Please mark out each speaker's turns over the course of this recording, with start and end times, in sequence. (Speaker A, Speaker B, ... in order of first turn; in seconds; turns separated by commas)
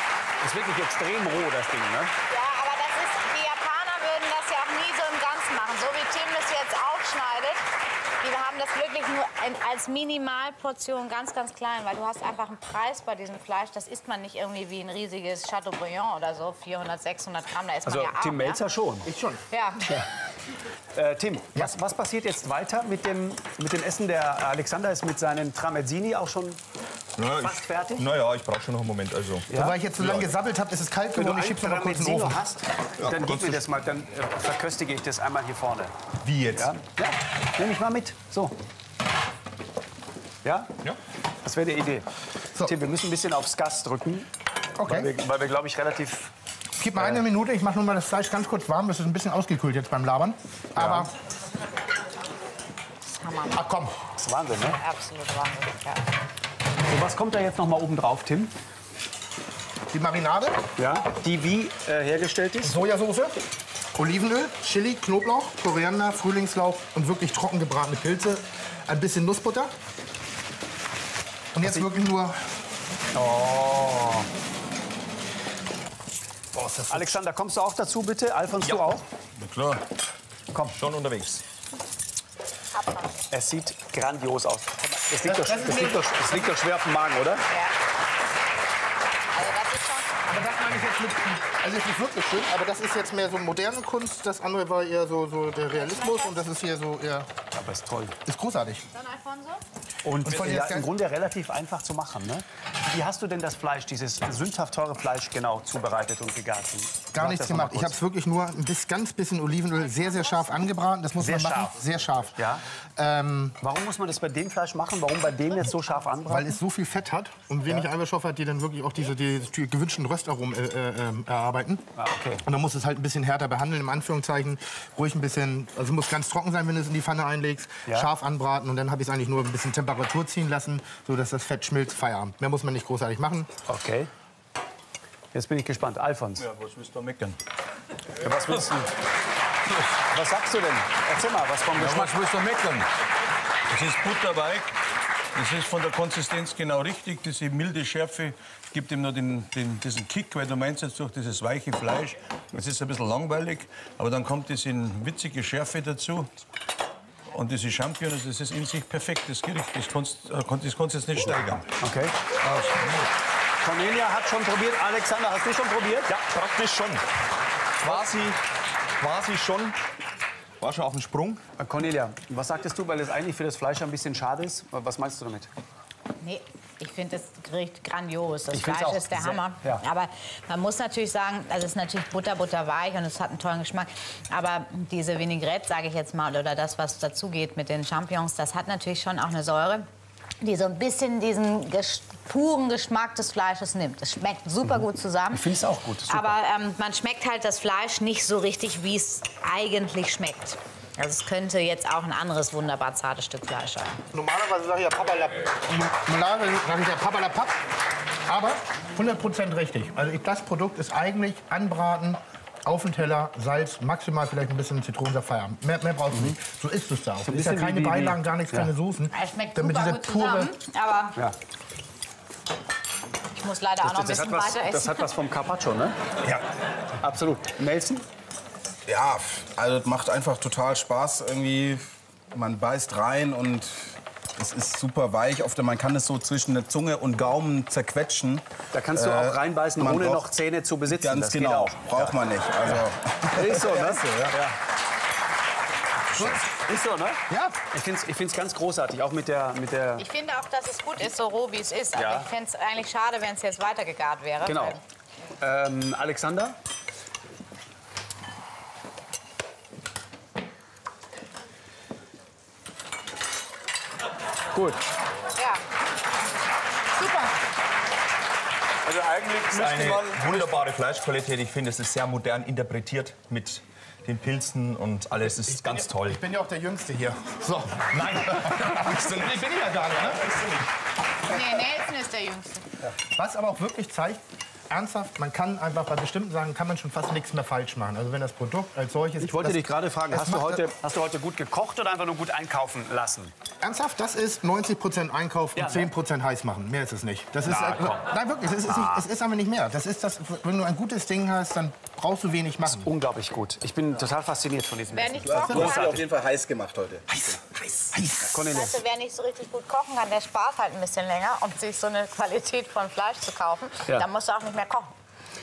Speaker A: 0.4-2.1, Speaker B: 2.3-7.6, Speaker B: 8.2-18.6, Speaker A: 17.8-19.1, Speaker C: 19.0-19.4, Speaker B: 19.5-20.0, Speaker A: 20.9-26.6, Speaker D: 27.2-29.5, Speaker A: 27.4-28.1, Speaker A: 29.5-29.8, Speaker C: 29.5-32.4, Speaker D: 30.0-30.3, Speaker A: 31.1-35.9, Speaker D: 33.0-33.6, Speaker D: 36.2-36.7, Speaker A: 36.5-38.5, Speaker A: 40.4-40.7, Speaker A: 41.4-42.1, Speaker A: 42.6-44.3, Speaker C: 44.8-45.1, Speaker A: 44.8-46.3, Speaker C: 46.8-51.1, Speaker A: 50.8-51.1, Speaker B: 53.0-53.6, Speaker C: 53.5-54.0, Speaker A: 54.2-54.8, Speaker B: 54.8-56.0, Speaker A: 56.8-58.5, Speaker C: 59.9-60.6, Speaker A: 60.8-62.8, Speaker C: 62.6-63.4, Speaker C: 63.9-69.7, Speaker C: 71.5-72.4, Speaker A: 71.6-71.9, Speaker A: 73.1-74.3, Speaker C: 76.5-77.2, Speaker A: 76.9-79.0, Speaker E: 79.4-79.8, Speaker A: 80.5-80.8, Speaker D: 80.7-81.4, Speaker B: 82.7-83.2, Speaker A: 83.3-87.4, Speaker C: 85.2-86.5, Speaker B: 87.5-87.7, Speaker B: 89.3-90.1, Speaker C: 90.3-97.3, Speaker B: 95.7-96.4, Speaker A: 97.5-98.2, Speaker C: 98.2-98.8, Speaker B: 98.9-99.6, Speaker A: 100.0-108.0, Speaker C: 100.2-100.9, Speaker C: 107.1-112.4, Speaker B: 109.9-110.5, Speaker A: 111.2-112.6, Speaker C: 113.0-113.6, Speaker A: 113.6-116.6, Speaker C: 116.3-121.8, Speaker A: 122.0-122.4, Speaker C: 122.4-133.5, Speaker A: 133.7-134.1, Speaker A: 135.3-136.5, Speaker E: 136.4-137.4, Speaker A: 138.2-138.9, Speaker A: 140.0-142.1, Speaker E: 141.8-142.9, Speaker E: 143.7-144.7, Speaker E: 145.3-156.3, Speaker E: 157.3-161.7, Speaker A: 161.2-162.2, Speaker D: 162.4-163.1, Speaker A: 163.6-166.2, Speaker D: 166.2-167.0, Speaker D: 167.8-168.4, Speaker D: 169.0-169.8, Speaker D: 170.6-171.4, Speaker A: 171.6-175.5, Speaker B: 176.2-189.9, Speaker A: 178.5-179.8, Speaker B: 190.4-195.5, Speaker A: 195.3-196.3, Speaker B: 196.1-204.0, Speaker C: 204.1-207.6, Speaker C: 208.3-220.5, Speaker A: 217.2-218.7, Speaker B: 219.1-221.2, Speaker B: 223.3-225.1, Speaker A: 223.8-226.0, Speaker A: 227.0-228.0, Speaker F: 228.9-240.2, Speaker A: 238.7-244.6, Speaker F: 240.9-244.4, Speaker C: 246.2-246.4, Speaker A: 246.5-250.1, Speaker C: 247.3-247.6, Speaker B: 250.0-254.8, Speaker A: 251.9-252.2, Speaker A: 254.4-254.8, Speaker A: 255.4-256.6, Speaker A: 264.5-264.8, Speaker B: 265.4-265.6, Speaker B: 267.0-267.3, Speaker E: 268.9-270.6, Speaker D: 269.5-276.2, Speaker C: 275.5-280.3, Speaker D: 277.9-279.4, Speaker D: 279.9-280.6, Speaker B: 281.3-282.6, Speaker C: 283.1-290.6, Speaker A: 289.2-293.3, Speaker C: 293.6-302.9, Speaker A: 295.6-295.9, Speaker A: 297.4-298.1, Speaker A: 298.6-299.0, Speaker A: 302.6-306.0, Speaker B: 304.9-306.0, Speaker F: 305.2-307.4, Speaker C: 307.1-308.3, Speaker A: 308.2-308.8, Speaker B: 308.4-314.9